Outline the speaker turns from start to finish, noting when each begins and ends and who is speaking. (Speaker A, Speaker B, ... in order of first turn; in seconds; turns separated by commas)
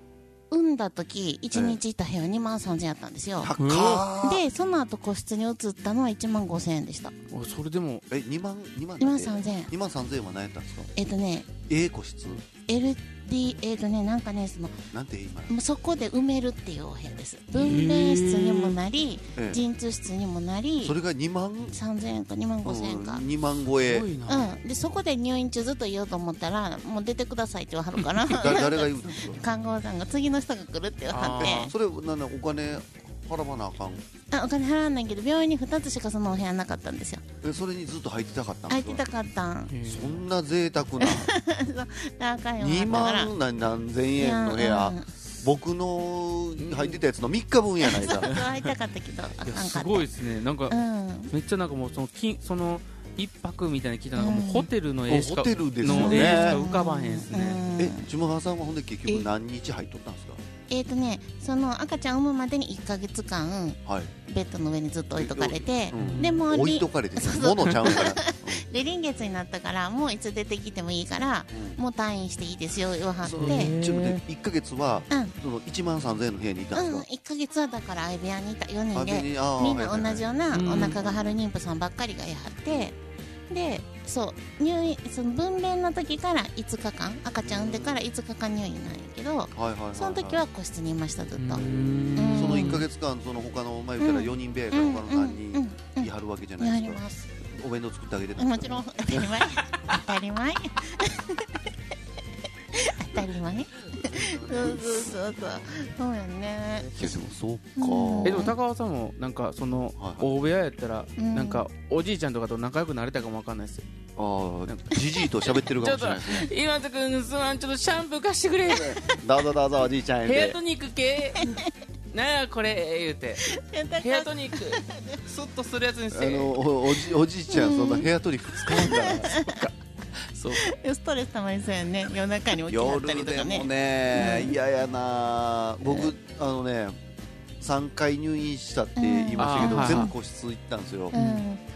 Speaker A: 0.5-3.5, Speaker B: 1.5-1.8, Speaker B: 3.4-4.4, Speaker C: 3.6-4.1, Speaker A: 4.2-7.1, Speaker C: 7.3-8.0, Speaker B: 8.1-10.9, Speaker A: 9.0-9.7, Speaker A: 10.9-11.5, Speaker B: 11.7-12.4, Speaker A: 12.7-14.8, Speaker B: 14.9-15.5, Speaker A: 15.5-20.9, Speaker C: 17.5-18.8, Speaker B: 19.4-19.6, Speaker B: 20.8-21.8, Speaker A: 21.7-23.2, Speaker B: 22.6-24.1, Speaker C: 23.8-24.5, Speaker A: 24.3-31.7, Speaker B: 28.2-29.4, Speaker C: 31.1-31.7, Speaker B: 31.4-34.0, Speaker A: 34.3-37.2, Speaker B: 37.4-39.0, Speaker A: 38.7-39.7, Speaker C: 39.7-40.2, Speaker B: 39.8-41.3, Speaker A: 41.0-43.3, Speaker B: 42.6-48.3, Speaker A: 44.2-45.1, Speaker C: 46.6-47.0, Speaker A: 47.8-50.1, Speaker C: 48.2-48.7, Speaker C: 49.5-50.8, Speaker A: 50.7-51.3, Speaker C: 51.3-57.6, Speaker A: 54.2-54.7, Speaker B: 55.1-56.6, Speaker A: 55.9-58.0, Speaker B: 57.8-60.4, Speaker A: 60.7-73.7, Speaker B: 63.9-64.1, Speaker B: 65.2-68.6, Speaker C: 65.9-66.4, Speaker B: 71.5-71.8, Speaker B: 73.2-77.0, Speaker C: 73.4-74.2, Speaker A: 76.7-83.0, Speaker B: 78.9-81.4, Speaker C: 80.5-81.0, Speaker A: 83.5-91.6, Speaker B: 87.4-88.0, Speaker B: 89.5-90.4, Speaker C: 91.4-92.8, Speaker B: 91.5-99.5, Speaker A: 92.2-92.8, Speaker A: 94.0-97.3, Speaker A: 98.4-101.6, Speaker A: 102.7-107.2, Speaker B: 104.1-105.0, Speaker B: 106.9-108.5, Speaker A: 107.8-108.5, Speaker C: 108.2-113.8, Speaker B: 110.0-110.3, Speaker A: 111.2-111.7, Speaker B: 114.2-116.5, Speaker C: 114.7-119.2, Speaker B: 119.1-120.6, Speaker C: 120.2-121.5, Speaker A: 121.4-121.7, Speaker C: 122.1-126.6, Speaker A: 123.5-125.2, Speaker B: 126.1-129.3, Speaker A: 127.5-128.1, Speaker A: 128.7-129.6, Speaker C: 129.0-129.7, Speaker C: 130.3-130.6, Speaker A: 130.5-134.5, Speaker B: 132.5-137.0, Speaker B: 137.6-141.2, Speaker A: 139.0-140.1, Speaker C: 139.4-140.1, Speaker C: 141.1-141.4, Speaker A: 141.1-141.6